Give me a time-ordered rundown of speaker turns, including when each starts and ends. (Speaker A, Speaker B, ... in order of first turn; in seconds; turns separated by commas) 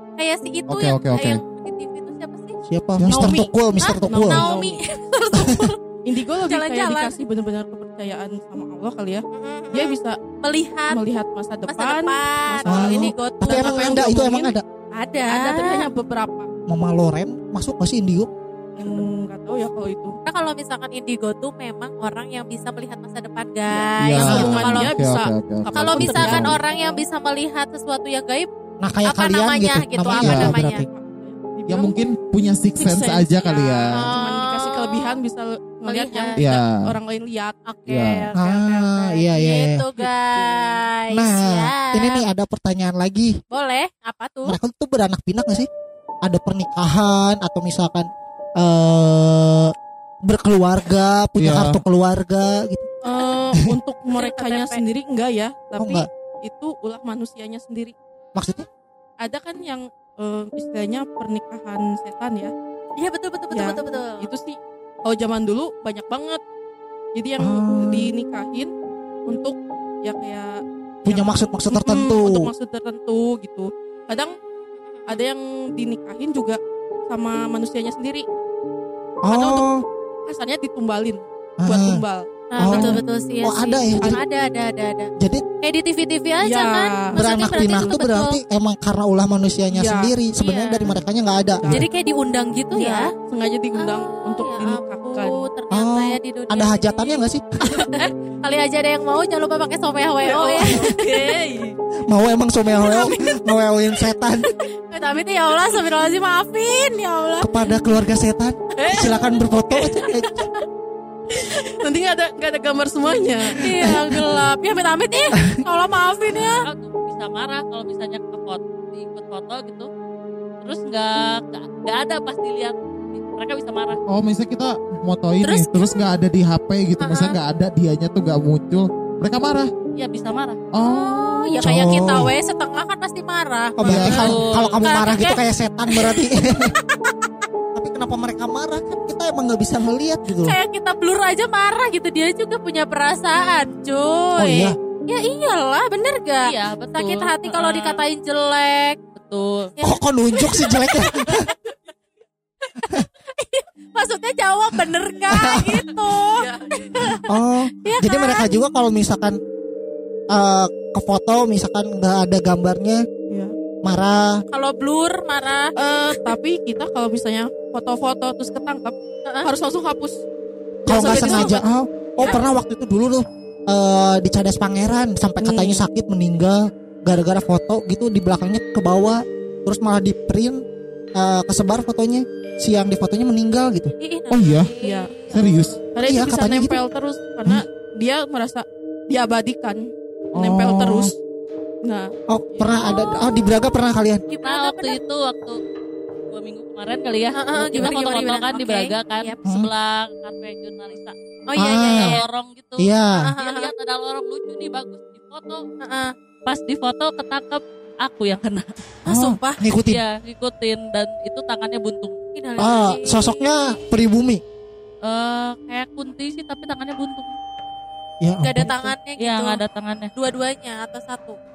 Speaker A: 0.2-2.6, Speaker B: 0.7-1.4, Speaker C: 2.7-4.4, Speaker B: 3.0-3.4, Speaker D: 3.1-10.2, Speaker A: 3.8-5.8, Speaker C: 5.4-5.7, Speaker A: 6.4-7.2, Speaker A: 9.3-11.0, Speaker D: 10.9-14.5, Speaker A: 11.7-13.9, Speaker C: 12.7-14.6, Speaker A: 14.9-15.9, Speaker D: 15.3-16.5, Speaker C: 16.7-19.0, Speaker D: 18.8-20.2, Speaker A: 20.2-25.0, Speaker D: 23.7-27.0, Speaker B: 24.0-26.6, Speaker A: 25.7-28.5, Speaker C: 28.8-30.6, Speaker A: 29.1-30.9, Speaker B: 30.2-30.8, Speaker D: 30.4-32.0, Speaker B: 31.7-34.1, Speaker D: 32.8-37.6, Speaker A: 33.9-35.2, Speaker A: 35.9-36.4, Speaker B: 36.4-36.8, Speaker A: 37.7-42.3, Speaker B: 37.9-38.3, Speaker C: 38.3-39.9, Speaker D: 40.0-40.8, Speaker C: 41.1-43.4, Speaker A: 43.5-44.6, Speaker C: 44.5-45.7, Speaker C: 46.2-49.7, Speaker C: 50.3-52.9, Speaker B: 51.4-51.8, Speaker D: 53.0-58.0, Speaker A: 54.1-54.8, Speaker C: 55.8-56.1, Speaker C: 58.4-58.7, Speaker D: 59.2-62.5, Speaker A: 63.0-64.3, Speaker D: 63.5-66.4, Speaker D: 67.2-68.7, Speaker C: 67.4-68.1, Speaker D: 69.3-74.4, Speaker C: 71.1-72.5, Speaker A: 74.9-75.2, Speaker D: 75.1-78.3, Speaker C: 79.2-79.8, Speaker D: 79.3-79.7, Speaker D: 80.2-83.0, Speaker C: 81.6-82.0, Speaker A: 82.5-88.4, Speaker C: 82.6-84.2, Speaker C: 85.2-85.5, Speaker D: 86.4-88.0, Speaker C: 87.2-91.9, Speaker D: 89.7-90.1, Speaker A: 90.3-90.9, Speaker D: 91.5-91.9, Speaker A: 91.7-93.1, Speaker D: 92.7-95.5, Speaker A: 93.8-97.2, Speaker C: 95.7-97.9, Speaker A: 97.7-101.3, Speaker D: 100.2-101.8, Speaker C: 102.1-104.5, Speaker D: 102.8-103.5, Speaker A: 104.9-107.5, Speaker C: 107.4-110.5, Speaker D: 108.8-110.4, Speaker D: 111.3-114.2, Speaker A: 113.5-116.7, Speaker C: 115.3-115.6, Speaker E: 116.5-119.9, Speaker E: 120.6-124.0, Speaker B: 124.1-129.7, Speaker A: 125.4-125.9, Speaker A: 127.0-127.4, Speaker E: 129.9-130.6, Speaker B: 130.7-132.0, Speaker A: 130.8-135.4, Speaker C: 131.6-132.3, Speaker C: 133.8-136.7, Speaker B: 133.8-134.4, Speaker E: 134.1-134.8, Speaker A: 135.9-136.3, Speaker C: 137.8-140.6, Speaker A: 140.4-149.0, Speaker C: 144.4-144.8, Speaker E: 146.4-148.1, Speaker E: 149.2-149.7, Speaker A: 149.8-151.5, Speaker C: 149.8-151.5, Speaker A: 152.9-157.2, Speaker C: 155.3-155.8, Speaker D: 156.1-157.2, Speaker C: 157.3-159.4, Speaker A: 157.8-158.5, Speaker C: 160.3-163.1, Speaker D: 163.3-163.6, Speaker C: 163.8-164.4, Speaker A: 164.5-166.3, Speaker D: 165.8-170.2, Speaker A: 169.3-169.5, Speaker D: 170.9-171.6, Speaker C: 170.9-180.6, Speaker A: 171.2-171.5, Speaker D: 175.4-175.8, Speaker C: 181.2-183.9, Speaker A: 184.0-185.4, Speaker B: 184.3-184.7, Speaker D: 184.8-185.2, Speaker B: 185.3-185.8, Speaker D: 185.9-191.2, Speaker C: 186.0-186.8, Speaker B: 190.4-191.1, Speaker D: 191.8-192.1, Speaker C: 192.3-194.2, Speaker A: 192.7-193.5, Speaker A: 194.3-195.0, Speaker E: 194.3-195.6, Speaker E: 196.3-201.2, Speaker A: 197.3-199.4, Speaker A: 201.5-202.2, Speaker C: 201.6-202.2, Speaker E: 201.7-205.6, Speaker C: 202.8-203.3, Speaker A: 203.2-203.7, Speaker A: 205.8-206.2, Speaker E: 206.5-208.8, Speaker A: 209.1-209.6, Speaker C: 209.1-210.0, Speaker E: 209.8-212.2, Speaker A: 212.4-213.3, Speaker C: 212.6-214.4, Speaker E: 215.0-217.4, Speaker C: 218.2-218.9, Speaker A: 218.4-219.6, Speaker E: 219.2-220.1, Speaker A: 220.2-221.4